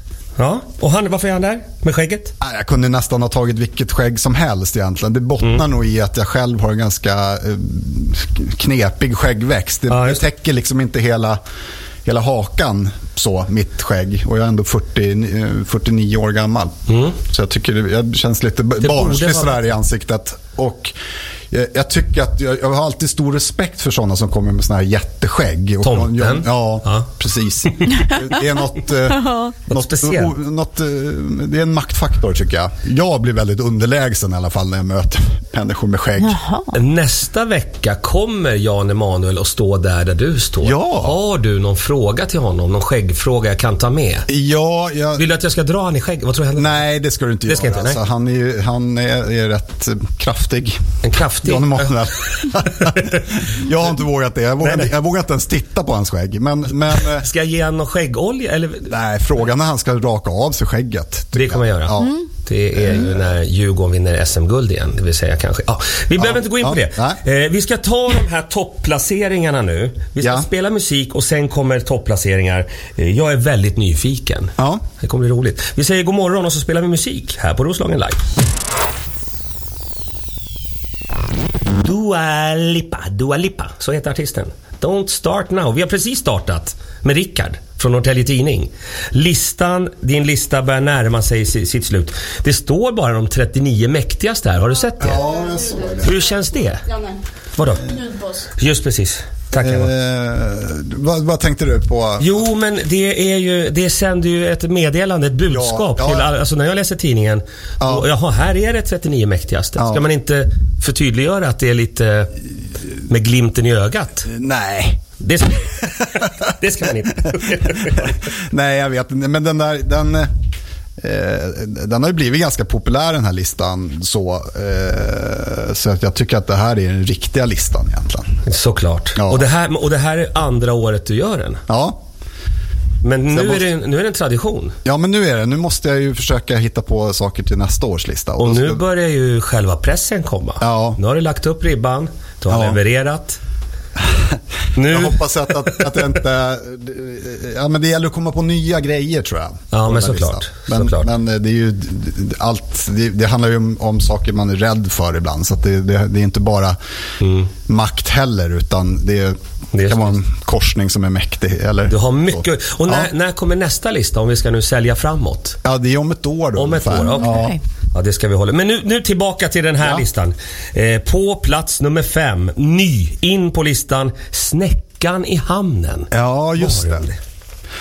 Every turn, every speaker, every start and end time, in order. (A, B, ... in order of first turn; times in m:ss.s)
0:00.4-0:02.3 A
0:02.4-0:11.4 B
0:09.9-0:10.2 A
0:12.0-0:20.9 B
0:16.9-0:17.2 A
0:18.8-0:19.7 A
0:21.5-0:36.4 B
0:25.8-0:27.1 A
0:29.1-0:29.5 C
0:29.7-0:30.3 A
0:36.2-0:36.7 C
0:36.7-0:44.3 A
0:40.6-0:41.2 B
0:44.3-0:45.2 B
0:45.1-0:46.8 A
0:46.6-0:50.8 B
0:47.4-0:48.0 A
0:51.0-0:51.9 A
0:51.4-0:57.2 B
0:54.6-0:54.9 A
0:56.9-0:58.9 A
0:58.9-1:02.2 B
1:01.3-1:18.2 A
1:02.0-1:02.2 C
1:02.8-1:03.1 B
1:06.2-1:07.2 B
1:10.2-1:10.5 B
1:21.7-1:35.2 A
1:35.0-1:36.2 B
1:36.0-1:36.9 A
1:37.5-1:39.9 A
1:39.6-1:42.4 B
1:42.2-1:52.4 A
1:45.5-1:46.3 B
1:47.8-1:48.1 B
1:49.8-1:50.0 B
1:53.0-1:54.3 A
1:54.3-1:55.0 B
1:55.2-1:58.1 A
1:58.0-2:00.3 B
2:01.0-2:08.2 B
2:08.4-2:11.6 A
2:09.2-2:09.4 B
2:11.7-2:12.0 B
2:13.0-2:14.7 A
2:13.3-2:13.7 B
2:14.8-2:18.8 B
2:18.4-2:23.4 A
2:20.6-2:21.0 B
2:22.5-2:22.8 B
2:24.0-2:36.8 B
2:24.7-2:25.8 A
2:29.7-2:31.1 A
2:37.2-2:37.5 A
2:37.7-2:43.1 B
2:39.7-2:40.2 A
2:41.9-2:45.6 A
2:45.6-2:47.6 B
2:46.6-2:57.2 A
2:47.0-2:47.6 C
2:56.1-2:57.0 B